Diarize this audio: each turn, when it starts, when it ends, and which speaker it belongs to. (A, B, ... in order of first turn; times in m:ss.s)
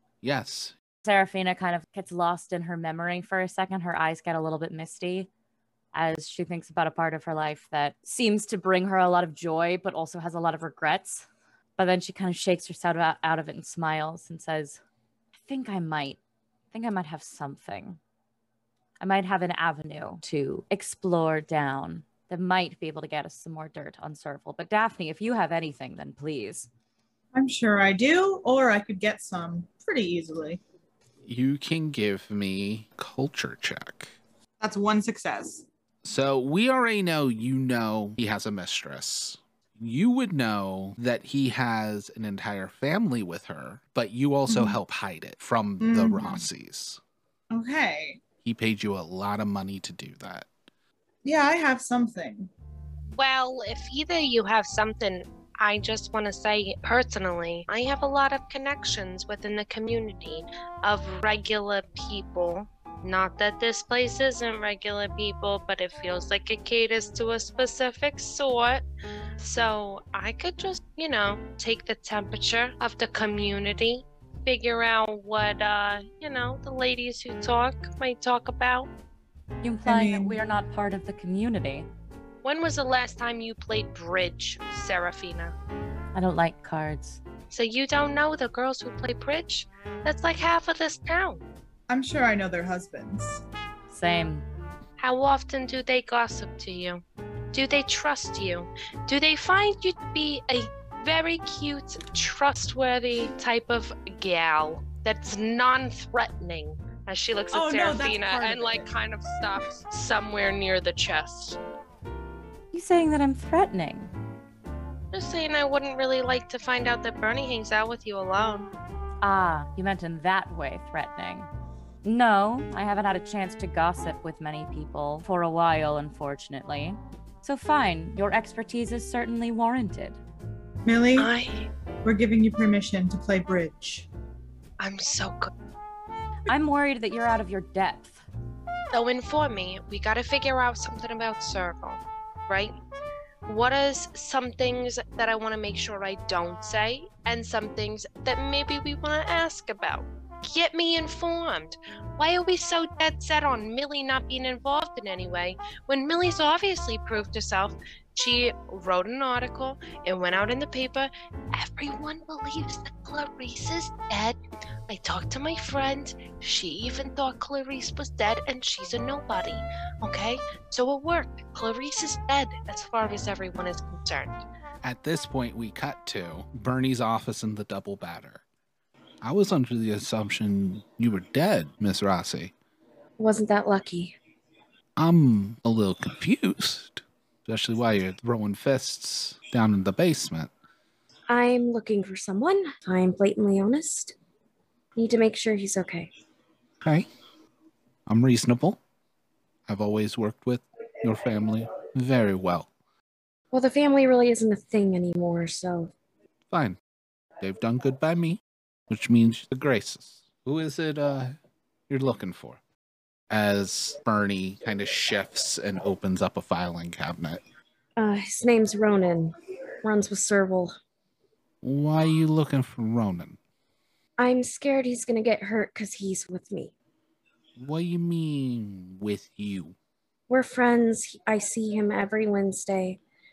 0:00.2-0:00.8 A
0:01.0-0:05.3 B
0:05.9-0:11.3 B
0:11.8-0:14.8 B
0:15.4-0:16.2 B
0:16.7-0:18.0 B
0:19.0-0:26.7 B
0:27.3-0:30.6 C
0:31.2-0:34.2 A
0:34.6-0:35.7 C
0:36.0-0:47.0 A
0:44.5-0:44.8 C
0:45.8-0:46.4 C
0:47.5-0:48.2 C
0:48.4-0:50.5 A
0:51.2-0:52.5 C
0:53.2-1:08.8 D
1:09.4-1:18.9 D
1:19.6-1:21.9 B
1:19.8-1:20.4 C
1:22.4-1:25.6 D
1:26.2-1:27.2 B
1:27.5-1:31.4 D
1:31.9-1:33.4 C
1:33.9-1:34.4 B
1:35.0-1:51.6 D
1:47.5-1:48.9 C
1:52.7-1:54.1 B
1:55.1-1:58.7 D
1:59.2-2:01.5 B
2:02.0-2:10.2 B
2:10.8-2:11.3 C
2:11.2-2:11.7 D
2:12.0-2:14.1 C
2:14.8-2:15.5 D
2:16.5-2:18.2 B
2:18.9-2:22.7 D
2:23.5-2:44.4 D
2:44.9-2:54.4 D
2:54.8-2:58.4 A
2:59.2-3:02.5 A
3:03.2-3:04.2 E
3:05.0-3:10.5 A
3:11.3-3:14.2 E
3:15.0-3:16.1 E
3:16.8-3:17.1 A
3:18.1-3:18.8 A
3:19.7-3:22.7 A
3:23.5-3:25.9 E
3:26.5-3:26.8 A
3:27.4-3:31.4 A
3:31.9-3:32.6 A
3:33.3-3:37.4 A
3:38.0-3:40.8 E
3:41.6-3:43.4 A
3:44.2-3:46.7 E
3:47.6-3:49.8 A
3:50.3-3:53.0 E